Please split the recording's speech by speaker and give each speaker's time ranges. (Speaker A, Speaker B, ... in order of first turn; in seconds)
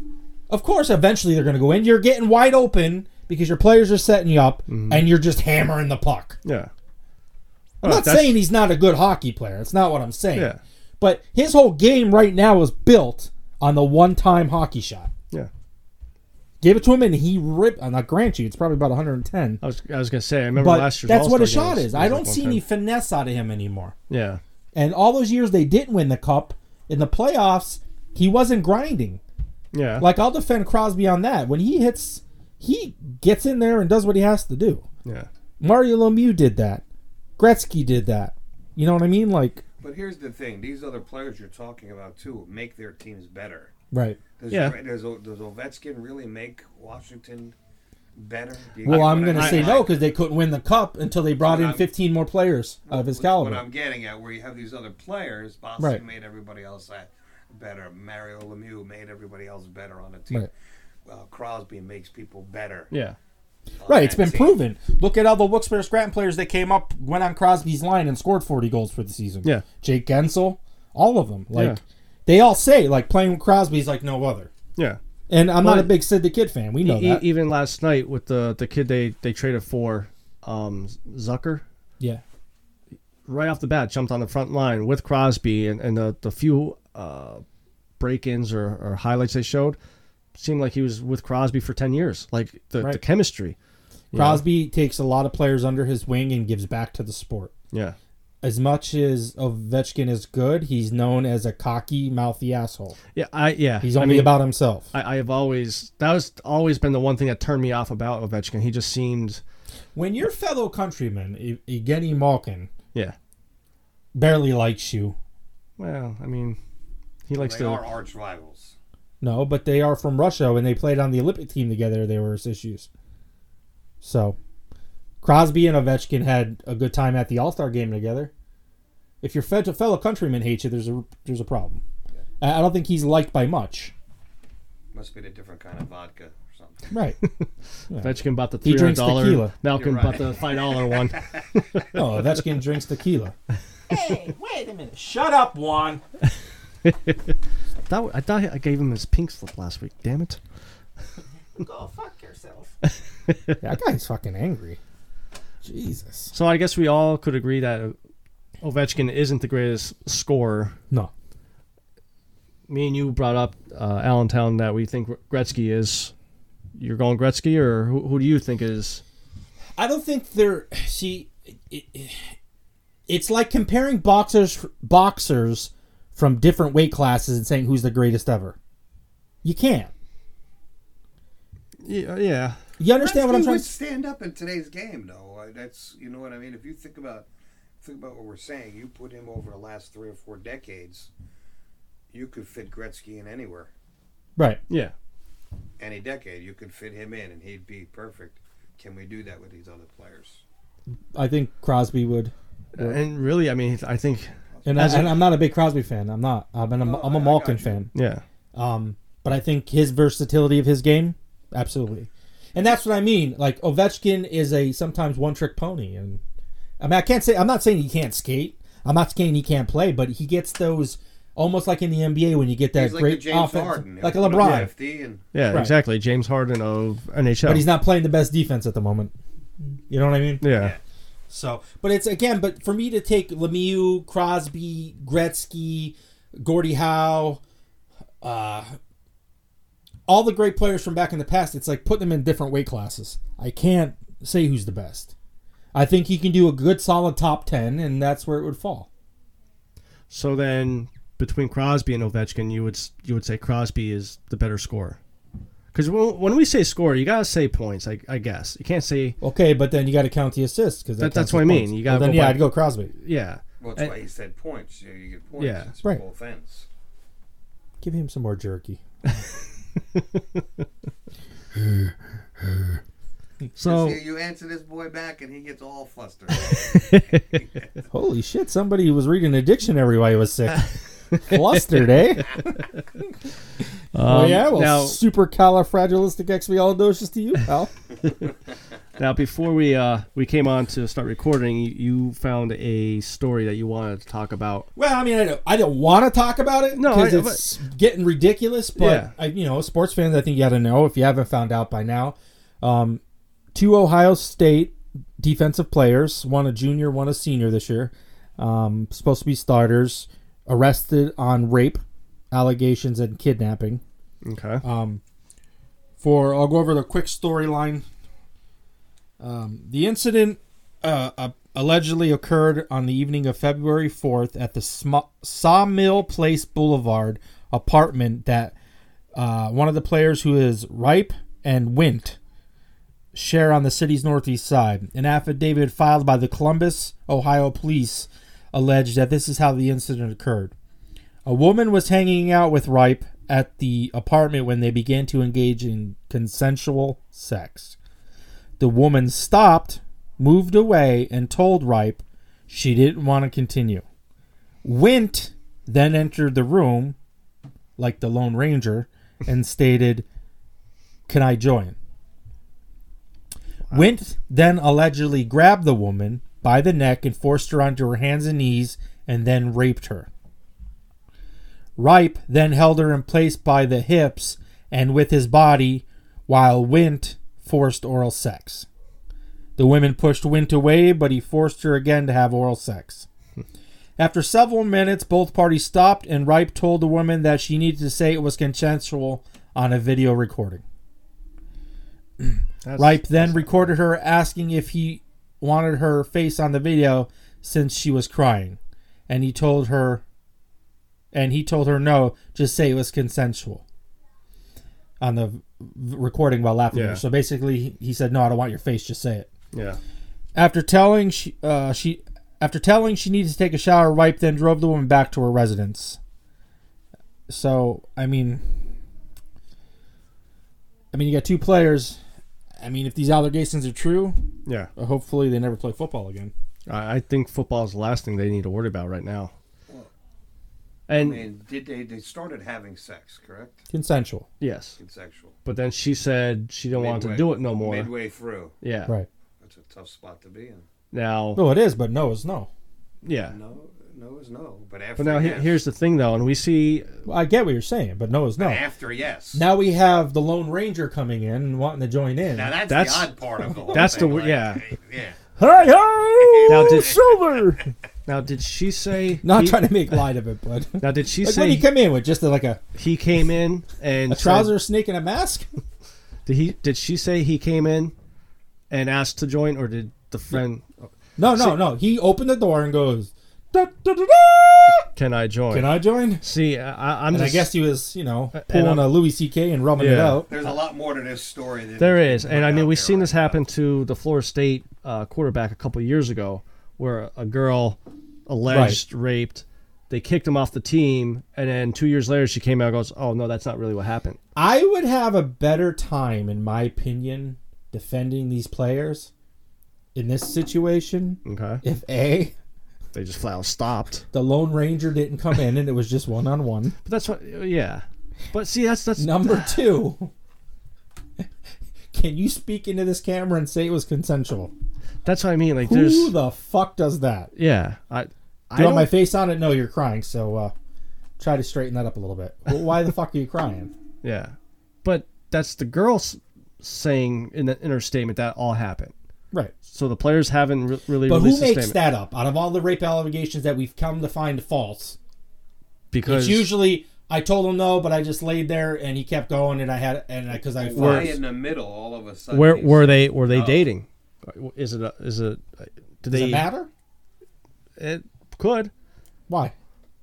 Speaker A: 0.5-6.4, 7.8-15.1, 16.6-19.6, 20.5-23.9, 24.7-29.2, 30.0-34.9, 35.6-36.8, 37.4-39.6, 43.9-44.2, 48.8-53.6, 63.9-74.5, 75.3-77.2, 94.1-97.5, 98.4-103.0, 103.8-104.9, 109.9-112.7, 114.1-115.2, 119.2-122.9, 124.0-124.3, 125.2-128.3, 129.2-131.8, 132.4-133.9, 136.9-137.2, 137.9-139.5, 141.9-143.3, 143.9-146.0, 151.5-152.7, 153.6-154.8, 155.6-156.3, 169.8-172.3, 173.1-178.6, 179.4-179.9, 182.8-183.7, 194.3-194.6, 201.1-203.0, 204.6-207.9, 208.5-216.2, 216.8-224.7, 227.4-229.1, 229.9-230.5, 231.3-237.4, 238.2-238.7, 240.1-245.1, 245.7-248.9, 259.2-262.9, 267.8-268.8, 277.9-282.6, 284.0-287.7, 294.8-303.0, 303.5-313.8, 314.6-315.0, 316.0-317.8, 319.2-328.5, 329.1-332.2, 333.1-340.5, 341.2-347.8, 348.6-353.8, 354.6-356.9, 357.8-360.0, 361.1-361.8, 363.7-370.1, 371.8-378.7, 379.6-383.1, 384.0-390.6, 392.2-398.6, 399.1-400.0, 401.1-403.6, 405.0-409.3, 410.3-416.0, 417.3-418.5, 420.9-422.0, 422.6-424.2, 424.8-426.3, 433.7-434.3, 441.4-442.5, 447.1-448.6, 449.3-452.6, 453.7-454.0, 455.4-457.6, 459.2-462.6, 464.1-465.4, 471.2-474.9, 475.5-476.2, 477.1-480.3, 488.5-488.8, 494.4-499.1, 499.9-502.3, 504.1-506.7, 509.0-510.1, 511.9-514.5, 515.6-517.3, 518.5-520.5, 521.2-523.7, 531.0-535.0, 536.0-541.2, 546.1-546.7, 549.3-549.5
Speaker B: 4.7-5.0, 6.4-6.7, 7.8-8.4, 10.3-10.6, 19.6-22.6, 24.1-24.4, 29.7-30.1, 44.5-44.7, 48.9-49.8, 62.9-63.1, 71.5-71.8, 75.6-76.0, 76.8-81.6, 83.2-87.4, 88.0-89.8, 90.3-93.5, 94.1-94.4, 97.7-98.0, 103.1-104.4, 104.9-109.4, 115.8-116.6, 117.3-117.9, 137.2-142.0, 146.8-147.2, 147.9-150.4, 153.3-153.6, 156.3-157.9, 158.6-160.8, 162.7-166.1, 166.8-169.0, 181.8-182.6, 194.7-194.9, 202.7-205.1, 207.9-208.2, 225.3-227.6, 230.4-230.7, 250.1-255.0, 255.7-259.1, 261.0-263.9, 265.4-265.7, 269.9-270.4, 273.6-274.0, 276.5-277.2, 283.9-285.0, 289.0-294.7, 296.7-297.5, 298.8-299.1, 314.2-314.6, 392.6-393.7, 406.7-407.0, 409.5-409.8, 426.7-429.3, 430.9-431.2, 434.4-434.8, 435.4-437.9, 438.6-438.9, 440.9-441.4, 443.0-443.3, 445.0-447.0, 452.7-453.1, 453.7-454.6, 456.5-457.1, 458.1-459.7, 460.8-461.7, 462.8-464.6, 466.2-467.9, 468.7-471.6, 474.9-477.5, 478.3-479.0, 479.8-480.2, 481.8-494.2, 501.2-501.6, 502.9-504.1, 506.8-509.6, 515.0-516.1, 517.3-518.9, 524.0-528.9, 529.6-531.8, 535.9-536.5, 540.7-541.2, 542.3-546.5, 547.8-548.7
Speaker C: 39.8-43.7, 44.4-47.5, 48.1-50.0, 51.4-51.9, 52.9-60.5, 61.0-62.9, 63.8-64.6, 117.3-118.7, 134.9-136.9, 139.7-141.4, 182.9-187.2, 187.8-191.1, 192.1-193.7, 195.8-200.4, 204.6-205.1, 206.8-207.8, 222.7-225.2, 230.5-230.8, 263.6-266.6, 273.6-277.4, 430.9-433.6, 434.8-435.3, 436.7-438.5, 439.4-440.6, 443.3-445.6, 448.4-449.4, 452.3-455.4, 456.1-457.4, 480.3-483.4, 540.5-543.7